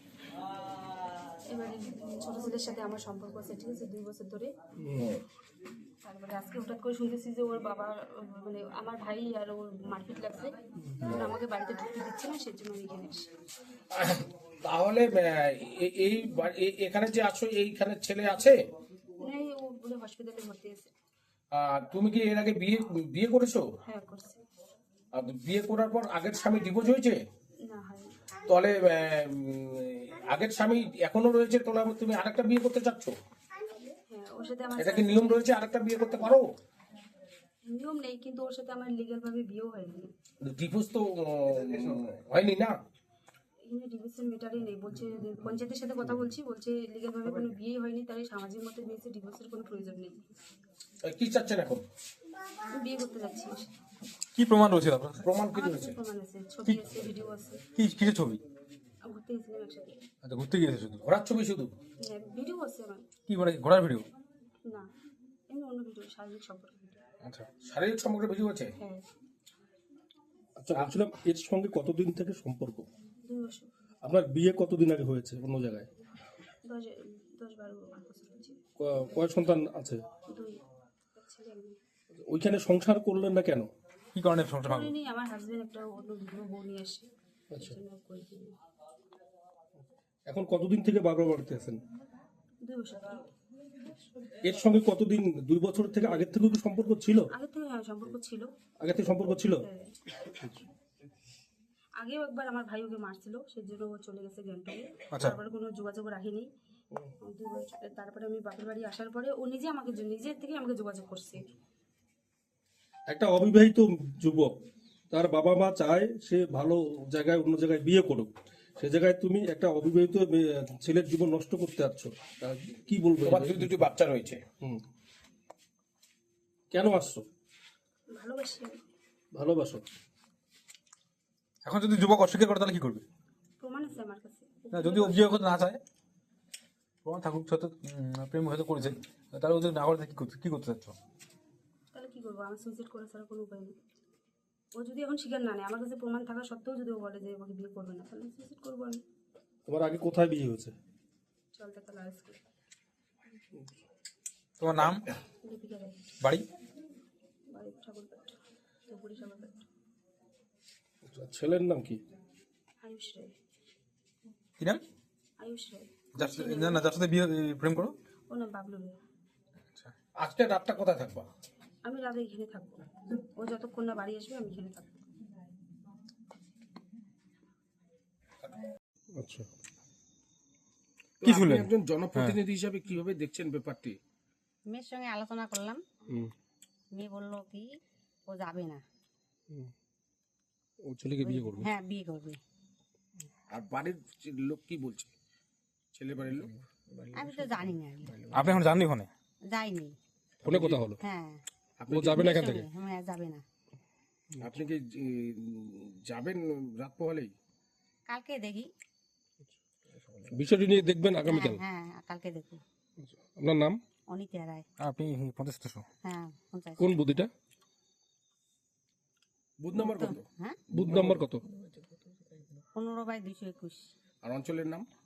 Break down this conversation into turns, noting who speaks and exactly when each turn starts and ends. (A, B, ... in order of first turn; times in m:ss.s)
0:01.5-0:04.5 A
0:06.0-0:13.3 A
0:13.9-0:18.6 B
0:19.2-0:20.9 A
0:21.5-0:23.7 B
0:23.8-0:24.4 A
0:25.1-0:27.2 B
0:27.7-0:28.1 A
0:28.5-0:33.2 B
0:34.1-0:35.5 A
0:34.8-0:36.5 B
0:37.6-0:40.1 A
0:40.4-0:42.8 B
0:43.7-0:50.3 A
0:51.0-0:51.8 B
0:52.8-0:53.7 A
0:54.4-0:55.3 C
0:55.2-0:56.0 B
0:55.5-0:57.6 A
0:57.8-0:58.4 C
0:59.0-1:00.0 A
1:00.2-1:01.0 C
1:01.0-1:01.8 B
1:02.0-1:03.1 A
1:03.3-1:04.1 C
1:05.5-1:07.0 A
1:07.2-1:07.5 C
1:07.6-1:08.7 B
1:10.6-1:12.9 D
1:13.2-1:13.7 A
1:14.0-1:15.9 D
1:16.6-1:18.6 A
1:18.8-1:20.0 D
1:20.3-1:20.6 A
1:21.2-1:21.8 A
1:22.1-1:23.7 D
1:24.1-1:24.9 C
1:24.6-1:28.6 A
1:27.5-1:27.8 D
1:30.3-1:31.8 D
1:32.6-1:33.3 A
1:34.4-1:37.3 D
1:37.3-1:38.5 A
1:38.8-1:39.6 D
1:39.6-1:39.9 A
1:40.2-1:40.6 D
1:42.0-1:46.5 A
1:47.2-1:51.5 A
1:53.1-1:54.5 D
1:55.1-2:03.8 D
2:03.2-2:04.4 B
2:06.7-2:07.2 D
2:08.1-2:08.8 A
2:09.3-2:09.8 D
2:11.6-2:13.0 C
2:13.6-2:15.4 A
2:14.7-2:15.8 C
2:17.0-2:21.0 C
2:21.9-2:23.8 A
2:24.8-2:29.0 A
2:29.7-2:30.8 D
2:31.5-2:32.4 A
2:34.6-2:35.1 C
2:35.4-2:36.0 A
2:36.2-2:36.5 C
2:37.5-2:39.6 A
2:41.0-2:42.0 D
2:42.8-2:43.3 A
2:45.4-2:46.9 A
2:46.2-2:48.0 C
2:48.3-2:49.0 A
2:50.2-2:51.3 B
2:51.8-2:55.0 A
2:59.2-2:59.5 D
3:01.2-3:04.0 B
3:01.2-3:02.4 C
3:04.7-3:05.8 E
3:06.9-3:07.7 E
3:08.3-3:08.8 E
3:10.8-3:11.7 D
3:11.2-3:12.4 E
3:13.5-3:15.1 B
3:15.9-3:16.6 B
3:17.1-3:18.2 E
3:18.2-3:19.1 C
3:19.5-3:20.0 E
3:20.4-3:21.0 D
3:20.4-3:20.8 B
3:21.0-3:21.4 E
3:21.8-3:22.3 B
3:21.9-3:22.7 D
3:22.1-3:23.4 E
3:24.4-3:27.3 B
3:28.1-3:28.7 E
3:30.2-3:31.6 D
3:31.3-3:32.6 E
3:33.0-3:33.8 D
3:34.1-3:34.6 E
3:34.8-3:35.9 C
3:36.0-3:36.8 E
3:36.8-3:37.3 D
3:39.6-3:41.1 B
3:39.9-3:40.6 E
3:40.7-3:41.4 D
3:42.8-3:43.9 E
3:44.2-3:44.9 B